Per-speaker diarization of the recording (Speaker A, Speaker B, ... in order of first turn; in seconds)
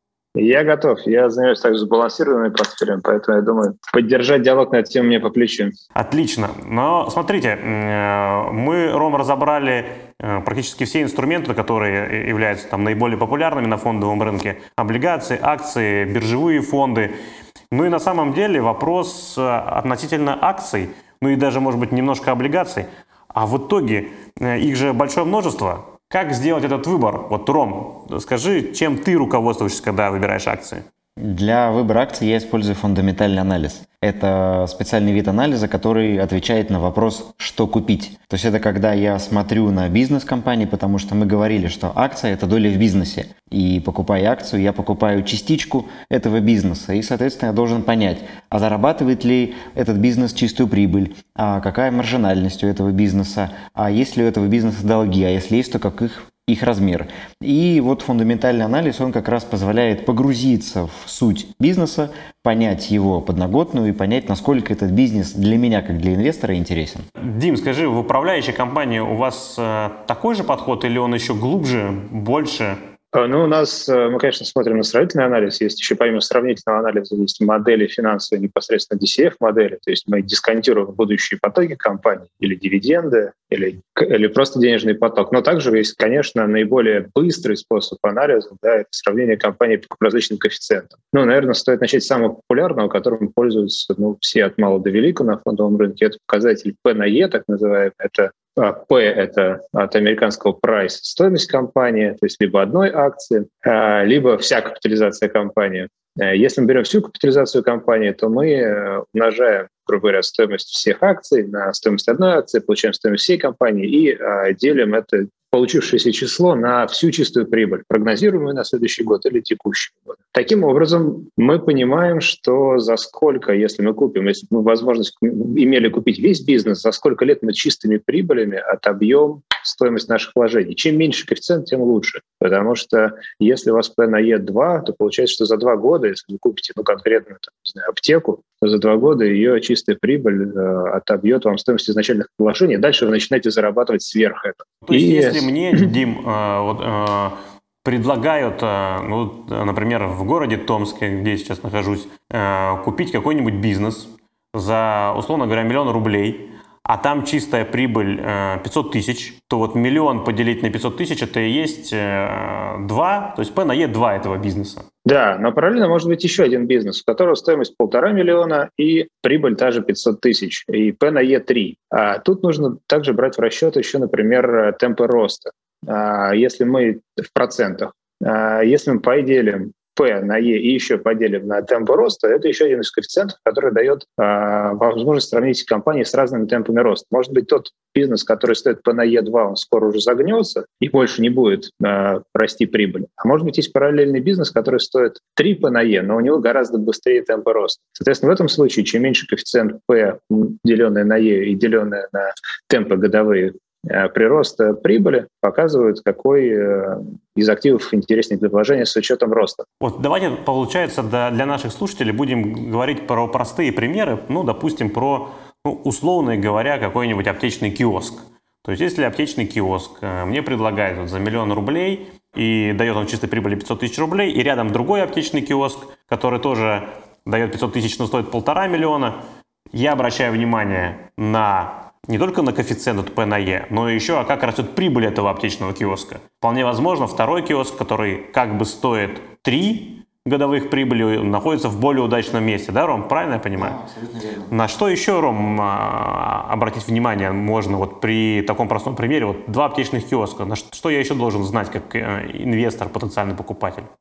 Speaker A: 0.3-5.8, 73.1-145.9, 165.1-209.6
Speaker B: 6.0-17.1, 17.7-30.8, 67.2-72.8, 144.8-164.9, 209.8-229.2, 229.7-243.8, 244.5-253.9
Speaker C: 31.2-67.0, 243.6-244.5